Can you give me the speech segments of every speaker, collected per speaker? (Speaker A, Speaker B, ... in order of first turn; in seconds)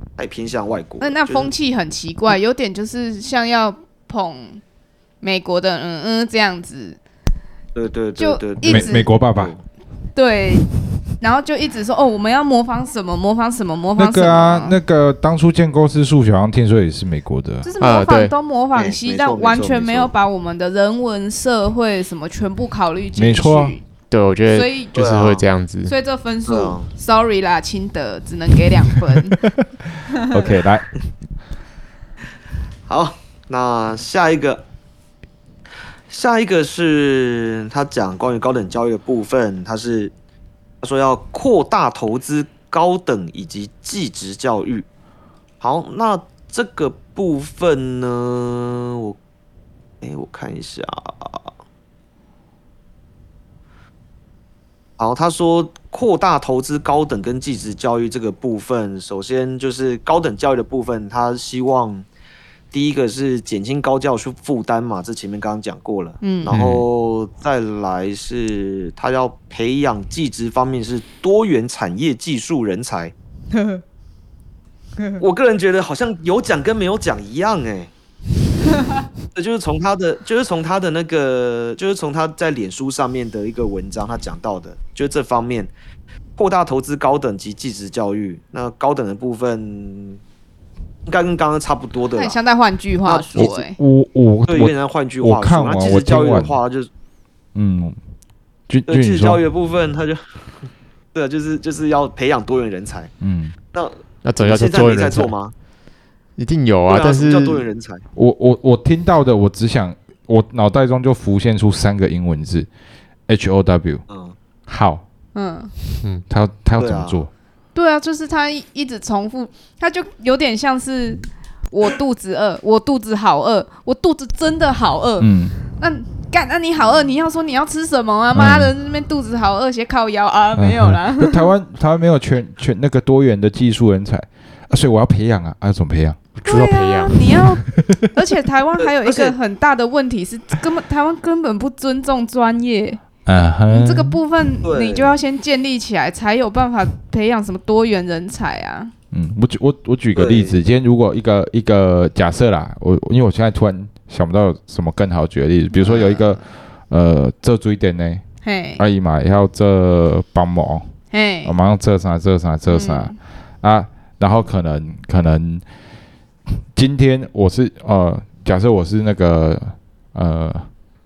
Speaker A: 0.2-1.5, 7.7-9.6, 18.7-20.1, 24.9-25.4, 26.4-26.9, 32.9-34.6, 36.1-40.1, 40.8-44.9, 45.6-49.2, 50.0-51.5, 55.0-62.0, 62.7-73.1, 75.2-77.9, 79.3-85.7, 86.3-90.2, 91.1-92.4, 93.0-93.5, 94.5-96.9, 98.9-103.1, 103.7-105.5, 106.9-108.0, 114.1-114.3, 116.8-117.2, 138.8-139.3, 144.6-145.1, 150.1-150.6
Speaker B: 1.0-4.6, 5.2-7.0, 8.2-9.1, 10.1-10.7, 11.2-14.8, 17.6-23.8, 24.5-24.9, 25.9-29.4, 66.2-66.5, 73.5-73.8, 92.2-93.8, 115.3-115.7, 117.7-131.5, 136.4-143.0, 143.7-148.9, 155.7-156.4, 158.4-158.8, 161.1-161.5, 162.7-163.2
Speaker C: 8.6-9.5, 13.9-17.7, 23.1-23.8, 30.1-30.9, 93.3-96.6, 97.5-98.0, 98.7-99.4, 103.2-103.5, 108.2-112.7, 113.3-114.0, 114.7-115.0, 116.3-117.3, 125.2-125.5, 128.3-128.7, 130.6-136.2, 137.3-138.1, 143.2-144.2, 149.1-158.2, 158.8-160.9, 161.4-165.6, 166.7-170.7
Speaker D: 17.8-18.3, 24.1-25.9, 66.5-66.8, 104.2-105.3, 106.4-107.6, 136.4-137.4